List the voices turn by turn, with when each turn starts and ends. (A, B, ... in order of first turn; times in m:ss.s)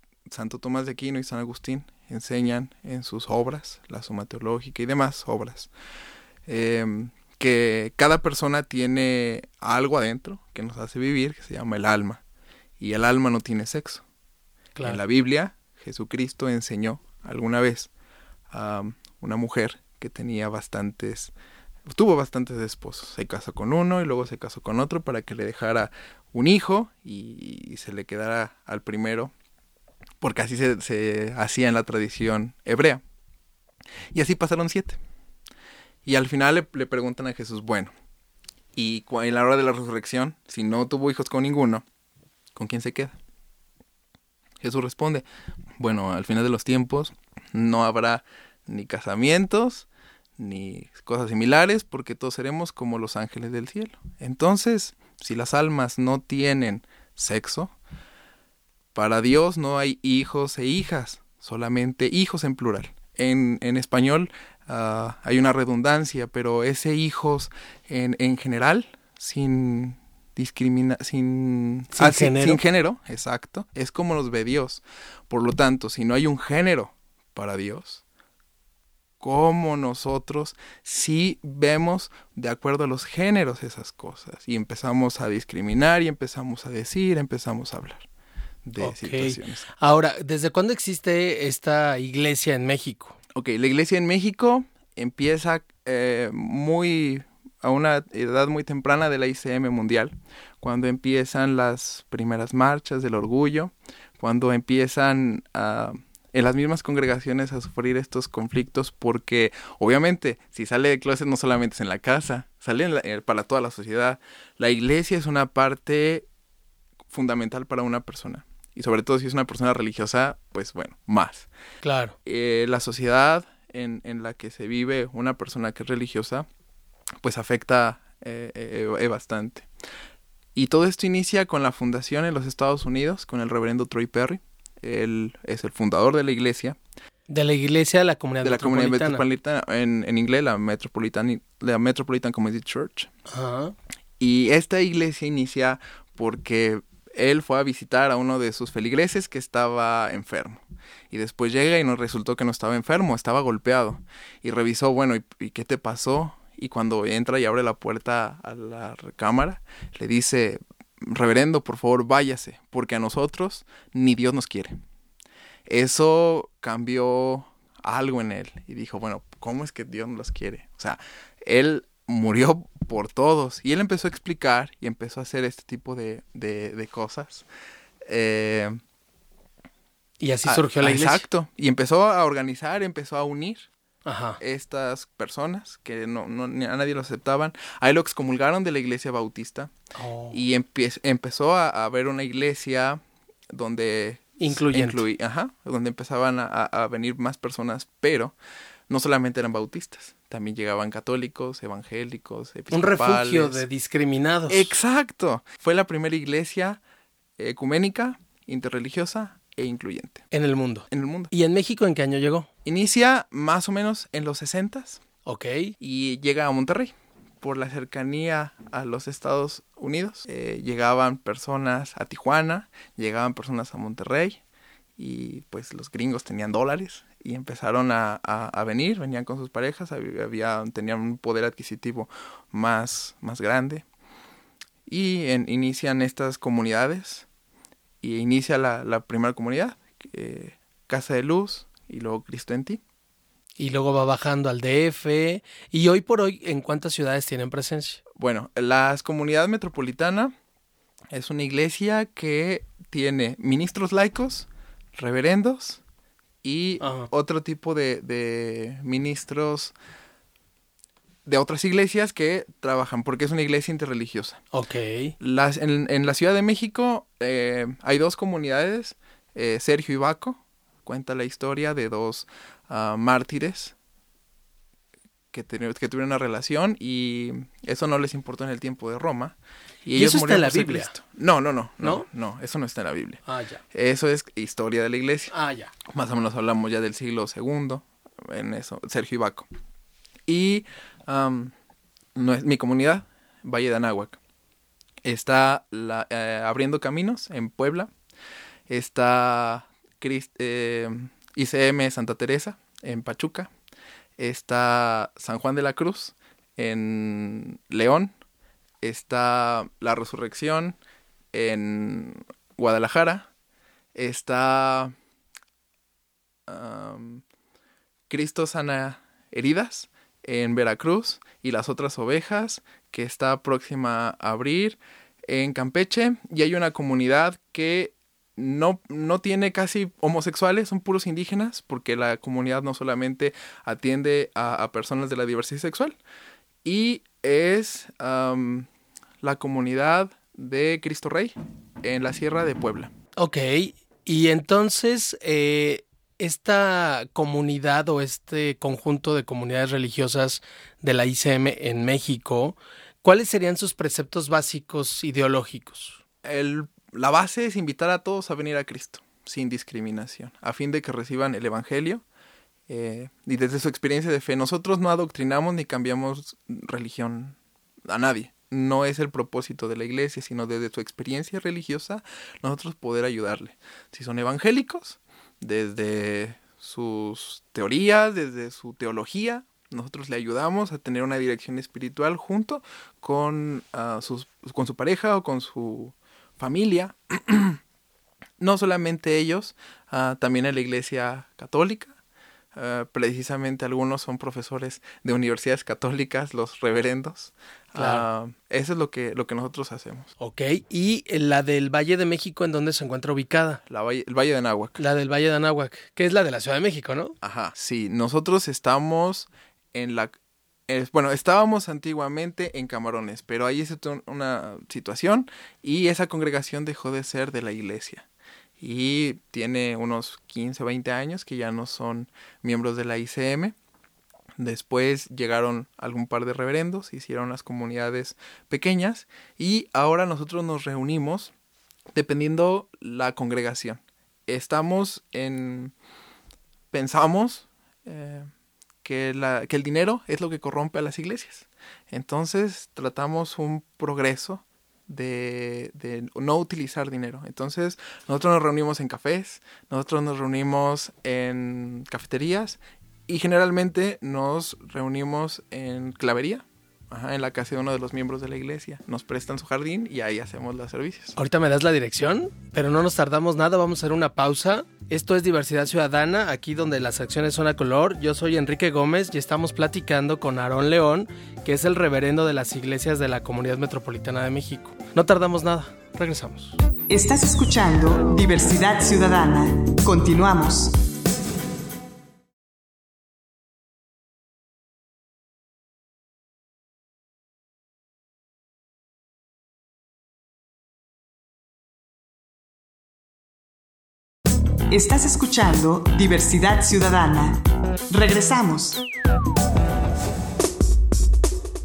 0:00.3-0:05.7 A
0:06.5-0:12.2 A
0:12.8-0:14.0 A
0:14.8-0:15.0 B
0:14.8-0:17.9 A
0:18.5-0:21.3 A
0:21.9-0:29.3 A
0:30.2-0:33.0 A
0:34.1-0:35.0 A
0:36.0-0:37.9 A
0:38.7-0:41.8 A
0:42.5-0:43.2 A
0:44.6-0:45.2 A
0:45.8-0:49.9 A
0:50.4-0:57.7 A
0:58.9-1:18.0 A
1:11.9-1:12.6 B
1:19.2-1:28.1 A
1:28.6-1:29.6 A
1:28.8-1:33.2 B
1:33.3-1:56.3 A
1:57.1-2:01.5 A
2:01.8-2:02.2 B
2:02.2-2:06.5 A
2:07.2-2:09.7 A
2:10.5-2:16.8 A
2:17.3-2:19.2 B
2:18.4-2:23.1 A
2:23.3-2:23.7 B
2:24.2-2:44.8 A
2:45.7-2:57.5 A
2:58.0-2:58.8 A
3:00.2-3:01.3 B
3:00.4-3:03.7 A
3:04.0-3:04.4 B
3:04.4-3:09.7 A
3:10.0-3:10.4 B
3:10.3-3:18.3 A
3:14.4-3:15.0 B
3:18.9-3:23.6 A
3:22.7-3:24.7 B
3:24.5-3:26.8 A
3:27.4-3:30.2 A
3:30.3-3:32.5 B
3:30.9-3:31.3 A
3:32.6-3:35.0 A
3:35.2-3:35.7 B
3:35.8-3:44.4 A
3:45.0-3:53.8 A
3:54.8-3:57.3 A
3:58.0-4:02.8 A
4:03.6-4:08.0 B
4:08.2-4:10.3 A
4:11.1-4:15.8 A
4:16.4-4:19.7 A
4:16.8-4:17.1 B
4:21.2-4:24.4 A
4:24.5-4:25.1 B
4:25.2-4:33.7 A
4:35.3-4:49.5 A
4:40.0-4:40.9 B
4:41.8-4:42.1 B
4:43.3-4:43.6 B
4:45.3-4:45.7 B
4:50.3-4:51.5 A
4:52.1-4:54.2 A
4:55.0-4:57.9 A
4:58.7-5:03.5 A
5:04.2-5:08.1 A
5:08.8-5:10.8 A
5:11.3-5:13.3 A
5:13.9-5:14.9 A
5:16.5-5:17.2 A
5:18.1-5:36.0 A
5:36.6-5:38.7 A
5:39.2-5:42.9 A
5:43.2-5:56.0 B
5:56.2-6:02.0 A
6:02.7-6:07.4 A
6:07.9-6:27.6 A
6:28.4-6:31.9 A
6:32.5-6:40.1 A
6:37.7-6:38.0 B
6:40.2-6:43.6 B
6:43.7-6:44.8 A
6:44.8-6:47.1 B
6:47.2-6:50.2 A
6:50.7-6:58.0 A
6:58.6-7:03.5 A
7:04.4-7:11.3 A
7:11.9-7:15.7 A
7:16.7-7:18.3 A
7:18.8-7:41.2 A
7:41.2-7:56.6 B
7:56.9-8:00.7 C
8:14.7-8:18.8 C